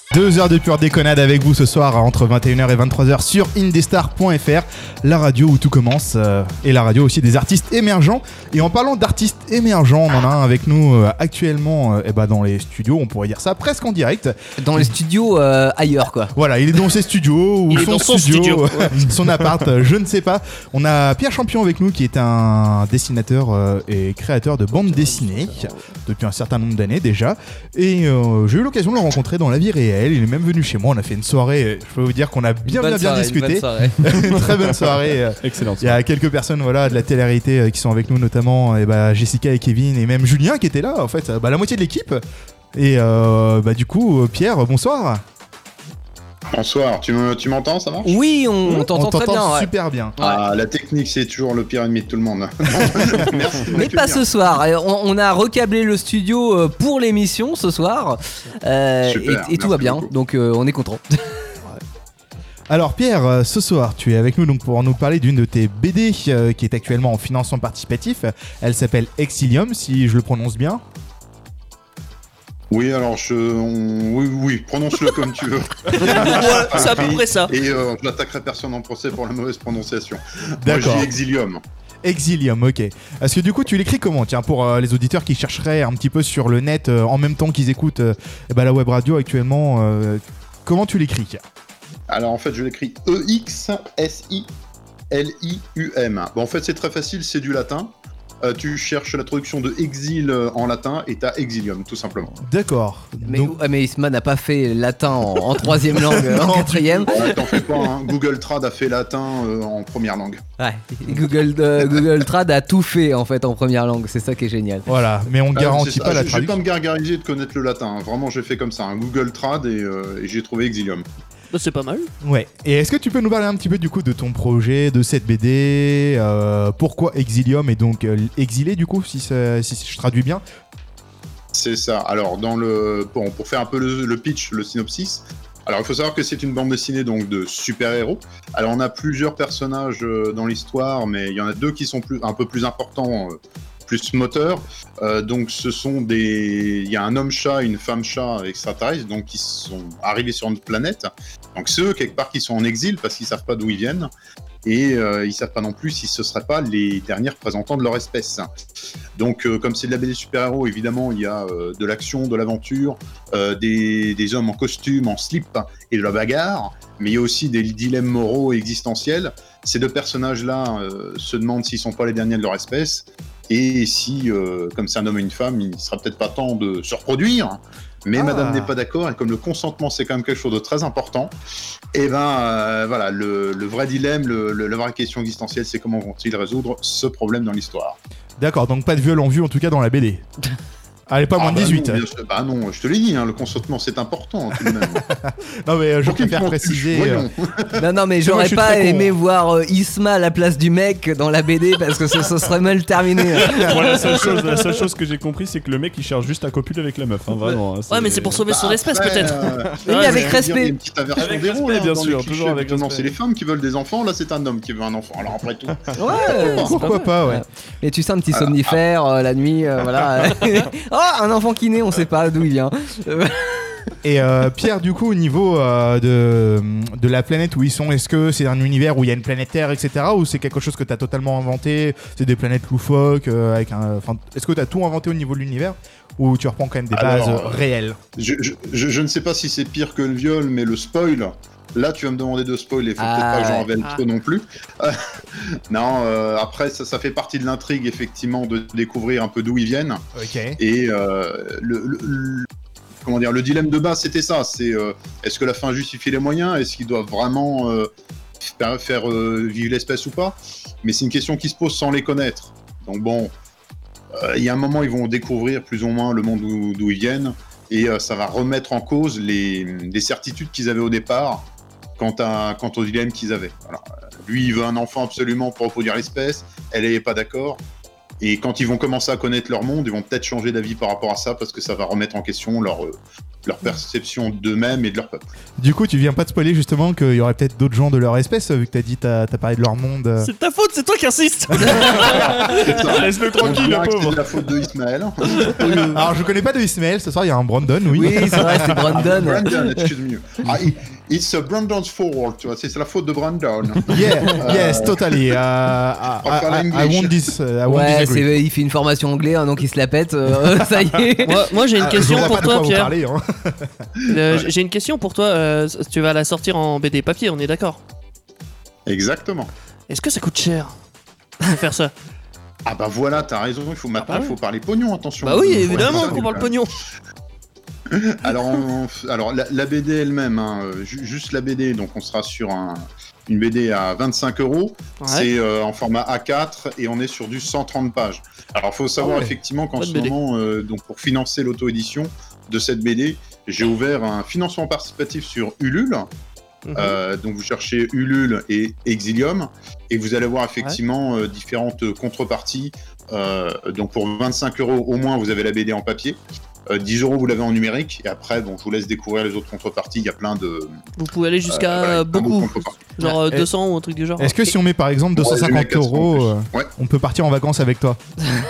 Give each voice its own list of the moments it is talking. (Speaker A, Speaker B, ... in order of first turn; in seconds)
Speaker A: 0.1-14.9, 16.3-42.2, 42.7-45.2, 48.7-50.2, 62.7-70.8, 80.6-81.1, 82.0-91.4, 102.4-103.6, 105.9-107.2, 114.9-116.6, 122.2-130.4, 178.2-178.7, 188.4-190.3, 191.1-192.0, 194.9-197.3, 198.2-199.1, 216.1-217.4, 224.0-238.0, 250.2-250.6, 285.6-290.3, 295.9-298.9, 303.9-308.4, 311.7-313.7, 363.0-363.5, 364.2-368.0
Speaker B: 14.6-16.3, 32.6-34.0, 48.0-50.4, 53.7-61.2, 103.2-107.7, 110.6-114.9, 197.8-204.3, 209.8-210.7, 215.9-223.9, 243.0-243.7, 297.9-299.9, 307.7-311.4
Speaker C: 17.7-19.0, 24.9-25.8, 75.9-77.5, 121.5-122.1, 207.9-210.4, 290.2-292.7, 311.2-312.9, 314.1-317.8, 319.9-320.7, 321.4-321.9, 324.0-324.3, 325.2-326.7, 335.0-335.3, 339.0-340.2, 346.6-347.0, 361.0-364.5
Speaker D: 35.4-36.0, 203.4-208.4, 211.1-213.1, 292.0-294.3
Speaker E: 46.5-48.2, 50.2-54.2, 59.0-60.1, 72.7-81.6, 92.1-94.5, 95.1-102.3, 107.1-110.4, 115.5-121.1, 131.5-154.1, 154.7-158.5, 159.2-181.3, 181.9-188.0, 191.4-195.1, 196.0-197.8, 208.5-216.9, 218.3-218.8, 236.9-237.6, 238.2-250.0, 250.6-252.5, 253.0-257.9, 258.4-263.3, 264.2-271.5, 272.0-277.6, 278.2-285.2, 291.6-296.1, 298.6-305.3, 306.2-307.3, 314.1-314.5, 318.9-319.5, 322.7-326.5, 327.9-346.1, 346.8-360.8, 361.5-362.8, 365.2-366.7